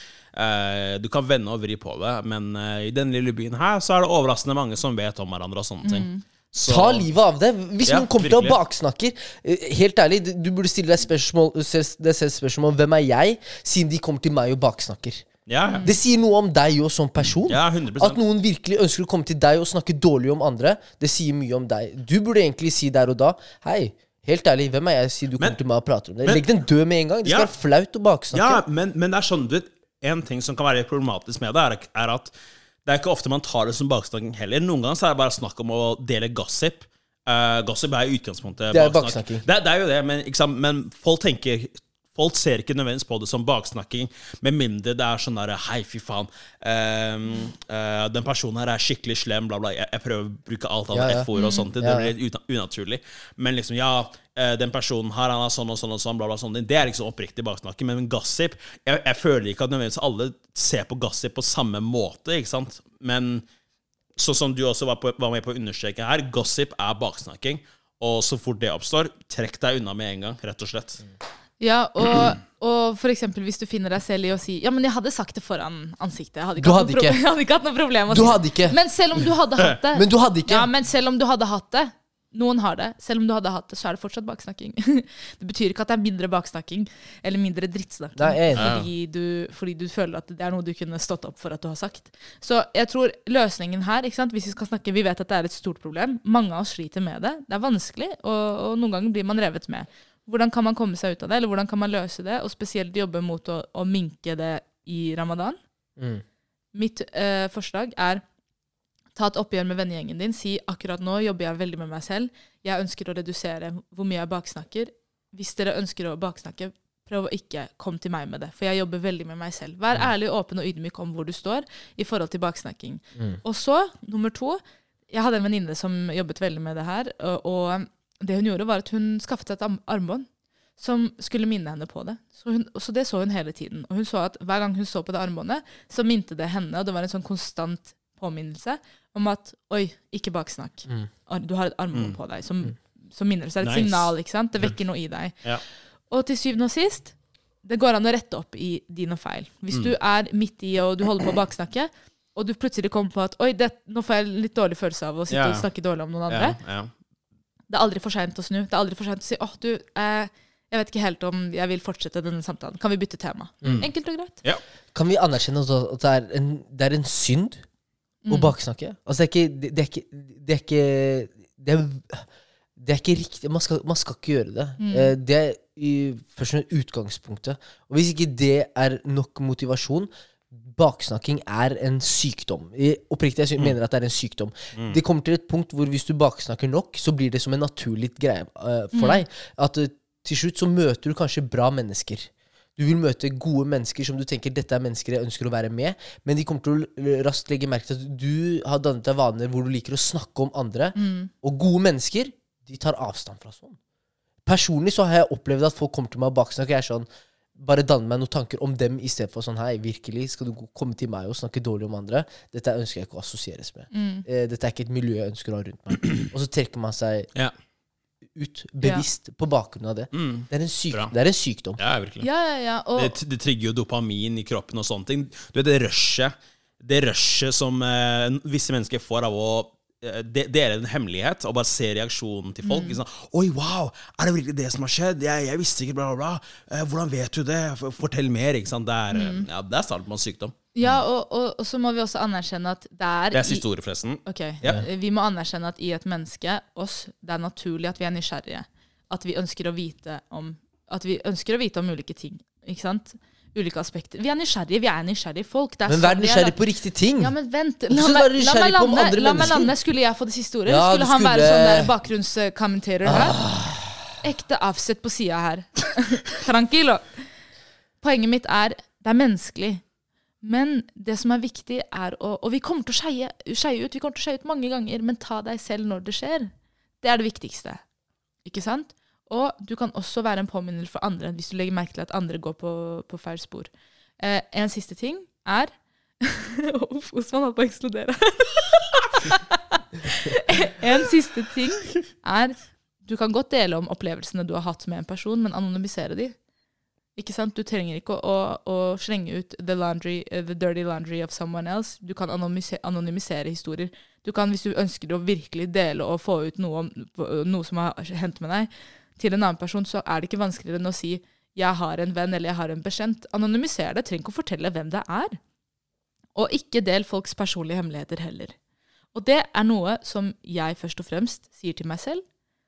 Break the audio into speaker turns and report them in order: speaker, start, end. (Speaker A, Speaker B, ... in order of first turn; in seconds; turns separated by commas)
Speaker A: 0.3-7.1, Speaker B: 5.8-6.2, Speaker C: 6.7-15.3, Speaker A: 7.8-8.6, Speaker A: 15.5-15.9, Speaker B: 15.7-15.9, Speaker C: 15.8-28.6, Speaker A: 17.5-18.2, Speaker A: 27.2-27.5, Speaker A: 28.3-32.3, Speaker A: 32.9-63.4, Speaker C: 38.7-39.5, Speaker C: 50.9-52.1, Speaker B: 51.4-51.7, Speaker A: 64.2-71.0, Speaker B: 71.6-105.6, Speaker C: 76.6-77.2, Speaker C: 78.1-78.8, Speaker C: 79.9-80.7, Speaker C: 88.2-88.7, Speaker A: 88.5-88.9, Speaker C: 106.0-106.2, Speaker B: 106.7-108.2, Speaker B: 109.2-130.3, Speaker B: 130.8-145.4, Speaker A: 143.6-144.1, Speaker B: 146.1-156.6, Speaker A: 155.3-155.7, Speaker A: 156.3-156.9, Speaker B: 157.7-164.4, Speaker C: 163.6-163.9, Speaker A: 163.6-163.9, Speaker C: 164.9-167.6, Speaker B: 168.2-168.5, Speaker C: 168.3-172.3, Speaker C: 172.8-203.8, Speaker B: 174.8-175.1, Speaker B: 188.9-189.2, Speaker B: 200.9-201.3, Speaker C: 204.5-207.1, Speaker C: 207.6-217.3, Speaker B: 213.9-214.2, Speaker C: 218.3-221.8, Speaker A: 220.1-221.1, Speaker A: 221.8-222.3, Speaker B: 222.2-223.2, Speaker A: 222.9-240.5, Speaker B: 232.6-233.0, Speaker B: 239.1-239.5, Speaker B: 240.7-243.7, Speaker A: 243.3-244.8, Speaker B: 244.2-256.6, Speaker C: 255.9-257.4, Speaker B: 257.2-263.4, Speaker C: 257.9-259.7, Speaker C: 260.7-261.9, Speaker C: 263.1-263.8, Speaker B: 264.2-267.2, Speaker B: 268.0-269.8, Speaker B: 270.4-276.5, Speaker B: 277.0-277.8, Speaker B: 278.4-296.4, Speaker B: 297.2-315.4, Speaker B: 316.4-318.5, Speaker B: 319.1-322.2